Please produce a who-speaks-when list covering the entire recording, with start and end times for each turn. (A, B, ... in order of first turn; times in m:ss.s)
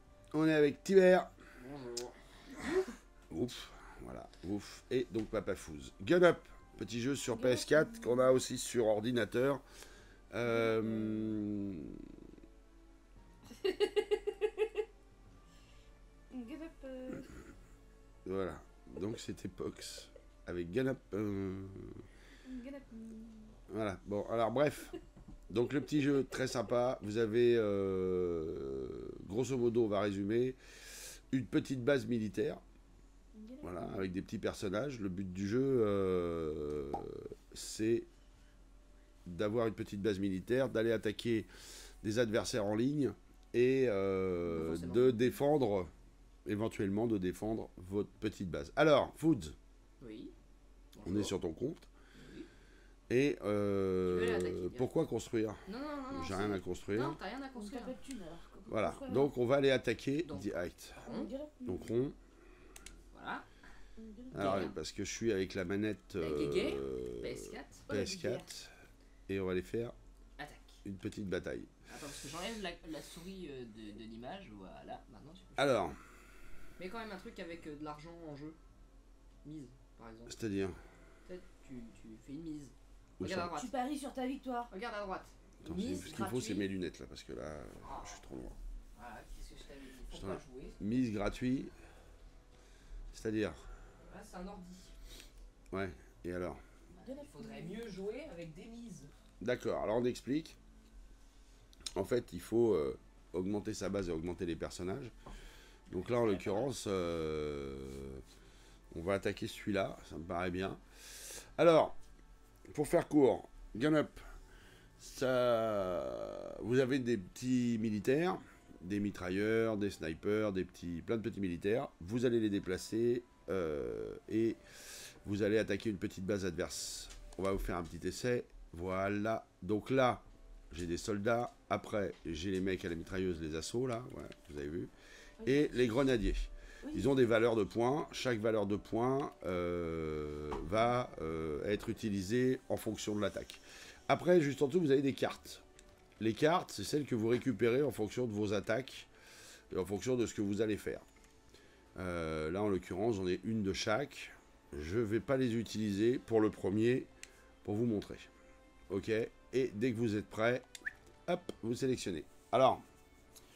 0:00.3-0:01.3 A
0:01.6-0:02.8 B
0:03.3-0:09.6 A
0:07.3-0:08.3 C
0:10.3-0:12.2 A
0:10.6-0:11.3 C
0:13.6-0:14.5 B
0:16.3-0:17.3 C
0:18.2-0:22.1 A
0:22.4-0:23.6 C
0:23.7-0:25.0 A
0:25.5-0:32.6 A
0:33.3-0:34.1 C
0:33.6-0:38.1 A
0:39.3-0:41.5 A
0:42.0-0:45.9 A
0:44.5-0:45.2 B
0:46.4-0:49.6 A
0:50.0-0:50.3 B
0:50.9-0:51.4 B
0:51.0-0:51.9 A
0:52.1-0:52.5 B
0:53.1-0:57.2 A
0:54.1-0:55.0 B
0:55.7-0:58.0 B
0:57.5-0:59.3 C
0:58.7-1:01.0 A
1:00.2-1:01.3 B
1:01.0-1:01.9 C
1:01.6-1:02.2 A
1:03.1-1:03.5 B
1:04.0-1:04.7 C
1:04.3-1:08.7 A
1:04.3-1:04.8 B
1:06.2-1:07.9 B
1:07.9-1:08.5 C
1:09.3-1:10.0 A
1:10.4-1:10.8 B
1:10.8-1:11.7 A
1:11.9-1:15.8 B
1:15.6-1:16.0 A
1:16.8-1:18.6 B
1:19.4-1:20.4 B
1:20.3-1:20.8 A
1:21.2-1:23.7 B
1:23.2-1:23.6 A
1:23.5-1:24.7 C
1:24.7-1:26.7 B
1:25.6-1:28.6 A
1:25.8-1:26.1 C
1:27.8-1:28.2 B
1:29.0-1:30.8 B
1:30.1-1:31.7 A
1:33.1-1:33.7 A
1:34.0-1:34.9 B
1:35.7-1:36.6 A
1:37.0-1:37.8 C
1:37.0-1:39.1 B
1:39.4-1:40.6 A
1:42.0-1:45.1 A
1:45.9-1:48.2 A
1:45.9-1:46.7 B
1:48.9-1:52.0 A
1:52.7-1:54.2 A
1:55.0-2:14.9 A
2:15.4-2:15.8 C
2:15.4-2:25.6 A
2:16.8-2:17.1 C
2:26.2-2:29.1 A
2:29.7-2:31.0 A
2:32.0-2:37.1 A
2:37.6-2:38.3 A
2:38.9-2:40.7 A
2:41.3-2:42.8 A